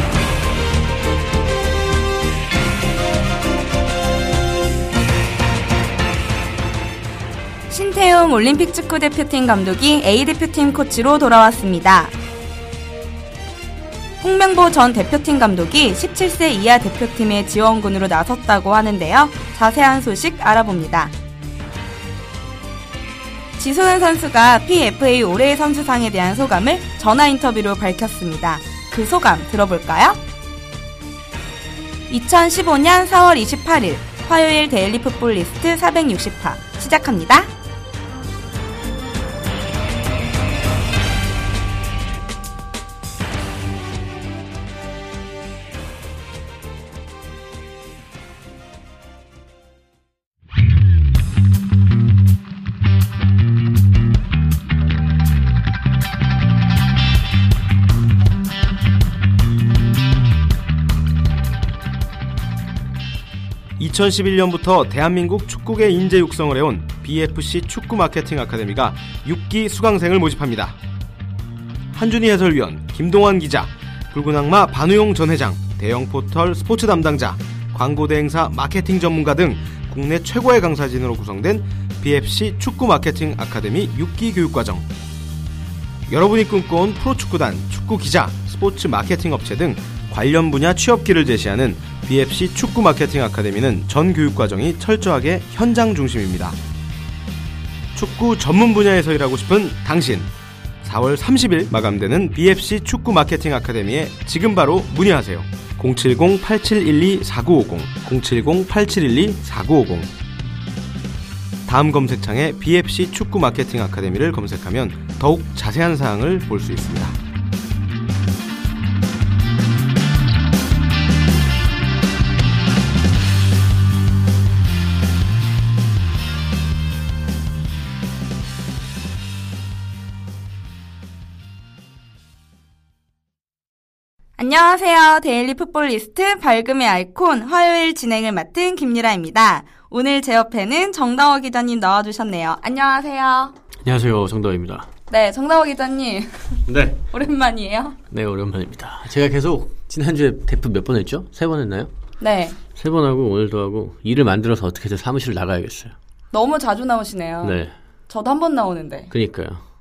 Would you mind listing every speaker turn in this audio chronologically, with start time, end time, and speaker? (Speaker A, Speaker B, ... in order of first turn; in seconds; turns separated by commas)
Speaker A: 7.7-12.1, Speaker A: 14.2-21.1, Speaker A: 23.6-30.2, Speaker A: 32.1-37.5, Speaker B: 63.8-70.8, Speaker B: 71.9-84.9, Speaker B: 86.1-96.6, Speaker B: 97.9-100.3, Speaker B: 100.8-110.1, Speaker B: 111.7-117.2, Speaker A: 134.4-143.5, Speaker C: 143.8-144.9, Speaker A: 145.1-148.0, Speaker C: 146.7-147.0, Speaker C: 148.1-151.9, Speaker A: 152.2-152.6, Speaker C: 152.7-155.9, Speaker A: 156.3-157.6, Speaker C: 157.4-157.7, Speaker A: 158.1-159.1, Speaker C: 159.1-159.6